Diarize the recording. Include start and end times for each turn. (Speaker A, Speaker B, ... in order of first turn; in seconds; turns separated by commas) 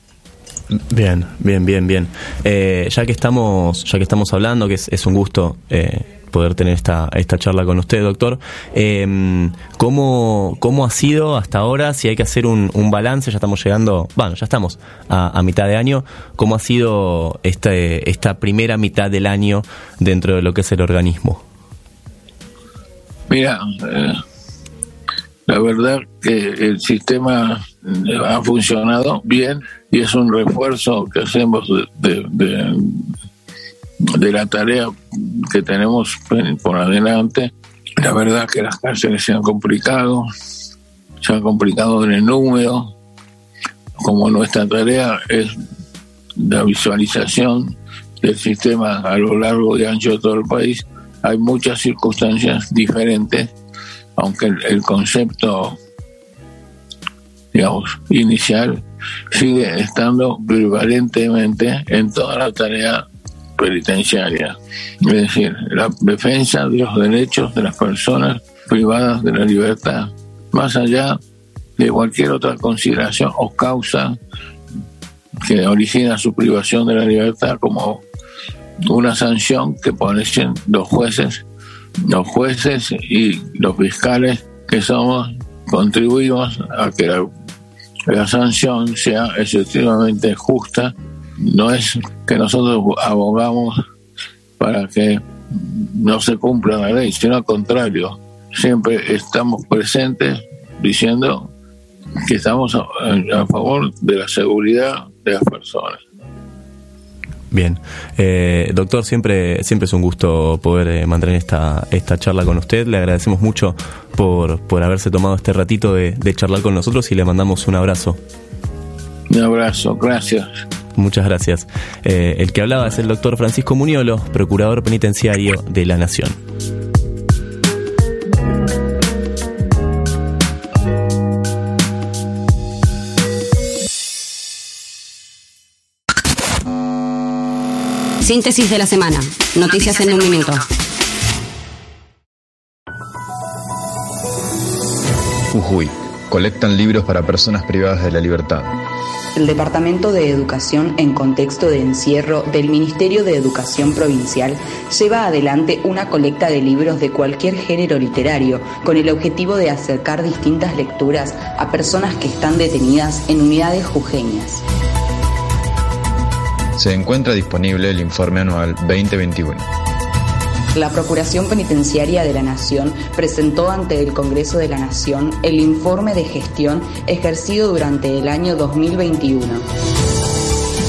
Speaker A: 0.7-21.4, Speaker B: 23.3-24.2, Speaker B: 25.5-33.1, Speaker B: 34.1-40.2, Speaker B: 41.2-42.9, Speaker B: 44.0-45.5, Speaker B: 46.4-53.5, Speaker B: 54.2-55.8, Speaker B: 57.5-63.0, Speaker B: 63.6-71.2, Speaker B: 71.8-74.2, Speaker B: 75.4-78.0, Speaker B: 78.9-81.4, Speaker B: 82.1-87.3, Speaker B: 88.1-93.8, Speaker B: 94.6-101.5, Speaker B: 102.2-106.0, Speaker A: 107.5-118.2, Speaker B: 119.3-120.5, Speaker A: 121.0-126.4, Speaker C: 138.2-140.6, Speaker D: 145.5-148.7, Speaker E: 149.4-164.6, Speaker D: 166.8-169.7, Speaker E: 170.7-179.7